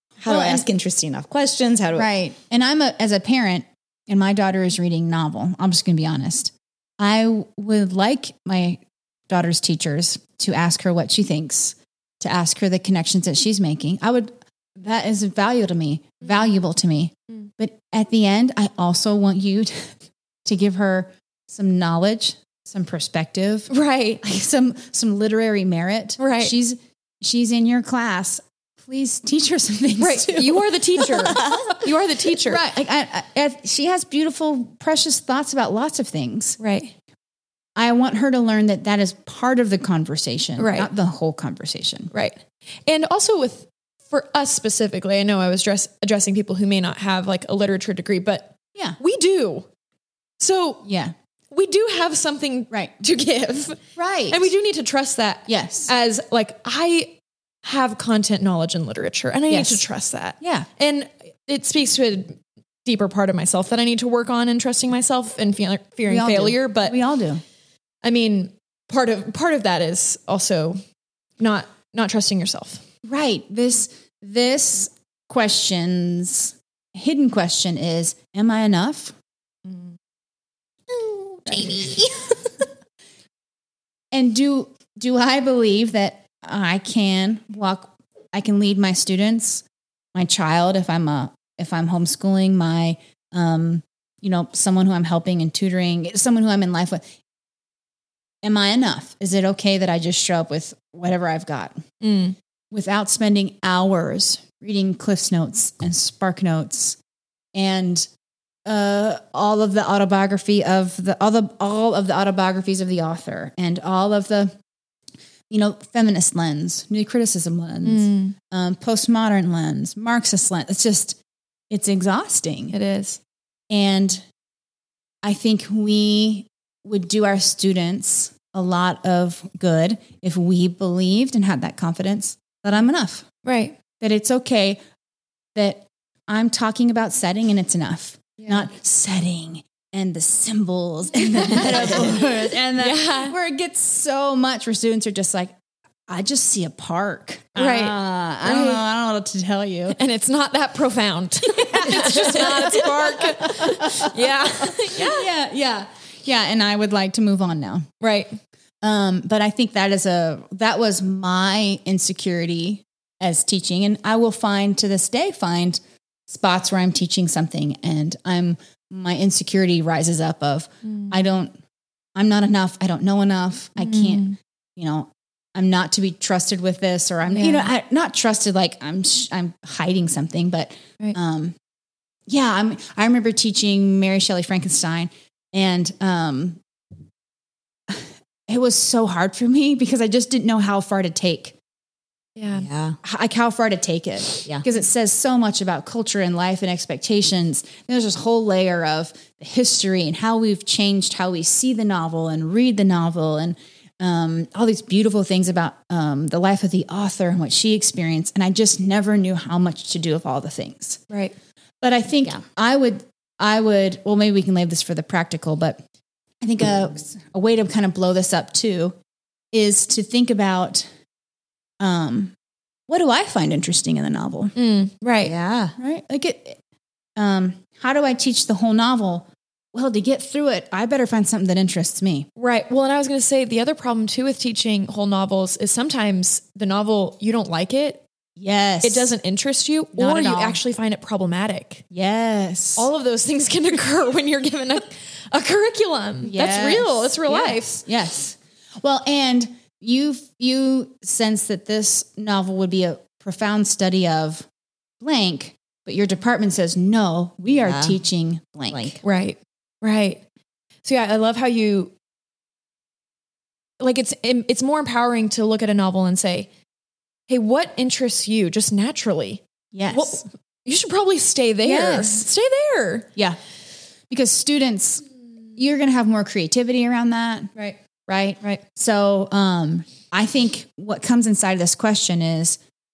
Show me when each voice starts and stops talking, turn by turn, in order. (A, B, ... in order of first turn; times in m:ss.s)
0:00.2-0:02.1 A
0:00.3-0:00.6 B
0:02.0-0:23.7 B
0:23.7-0:24.2 C
0:24.2-0:31.5 B
0:26.2-0:26.6 C
0:30.0-0:32.6 C
0:32.5-0:36.6 B
0:36.6-0:36.9 C
0:37.8-0:42.1 B
0:40.6-0:40.9 C
0:42.1-0:49.7 C
0:50.4-0:50.9 C
0:50.8-0:51.1 B
0:51.5-0:53.8 C
0:54.0-0:54.4 B
0:54.3-1:07.0 C
0:55.5-0:55.9 B
0:59.5-0:59.8 B
1:00.4-1:00.7 B
1:06.1-1:07.4 B
1:08.0-1:10.8 C
1:11.4-1:12.8 C
1:13.0-1:19.2 B
1:21.5-1:22.1 C
1:24.1-1:37.0 B
1:38.4-1:41.8 B
1:42.0-1:42.4 C
1:42.7-1:47.0 B
1:47.6-1:48.1 B
1:48.7-1:54.6 B
1:55.5-2:01.2 B
1:57.8-1:58.4 C
2:01.7-2:02.8 B
2:02.7-2:03.2 C
2:03.7-2:04.2 B
2:05.2-2:13.3 B
2:13.4-2:13.8 C
2:14.0-2:14.8 B
2:15.6-2:25.5 B
2:18.4-2:18.7 C
2:21.3-2:23.4 C
2:26.1-2:30.0 B
2:27.6-2:28.8 C
2:29.9-2:35.3 C
2:31.6-2:34.1 B
2:34.9-2:37.9 B
2:38.0-2:38.4 C
2:38.8-2:51.6 B
2:50.8-2:51.1 C
2:52.2-3:01.5 B
2:53.8-2:54.4 C
2:57.3-2:57.7 C
3:02.3-3:06.6 B
3:07.9-3:11.6 B
3:12.4-3:12.7 C
3:12.5-3:13.0 A
3:13.0-3:31.0 B
3:31.8-3:35.8 B
3:36.4-3:39.0 B
3:39.5-3:40.9 B
3:41.8-3:42.3 B
3:42.9-3:44.5 B
3:44.6-3:45.3 C
3:45.2-3:45.8 A
3:45.8-3:46.6 B
3:47.2-3:52.3 B
3:52.4-3:58.0 C
3:58.4-3:59.1 B
3:58.8-4:01.8 C
3:59.9-4:00.6 B
4:01.9-4:02.9 B
4:02.8-4:07.8 C
4:06.2-4:14.5 B
4:15.0-4:19.0 B
4:17.6-4:18.0 A
4:18.7-4:19.0 A
4:19.0-4:20.2 C
4:20.8-4:21.9 C
4:23.8-4:26.5 C
4:27.3-4:33.1 C
4:29.7-4:30.2 B
4:31.6-4:32.3 B
4:34.1-4:35.0 B
4:35.6-4:37.5 B
4:38.1-4:42.6 B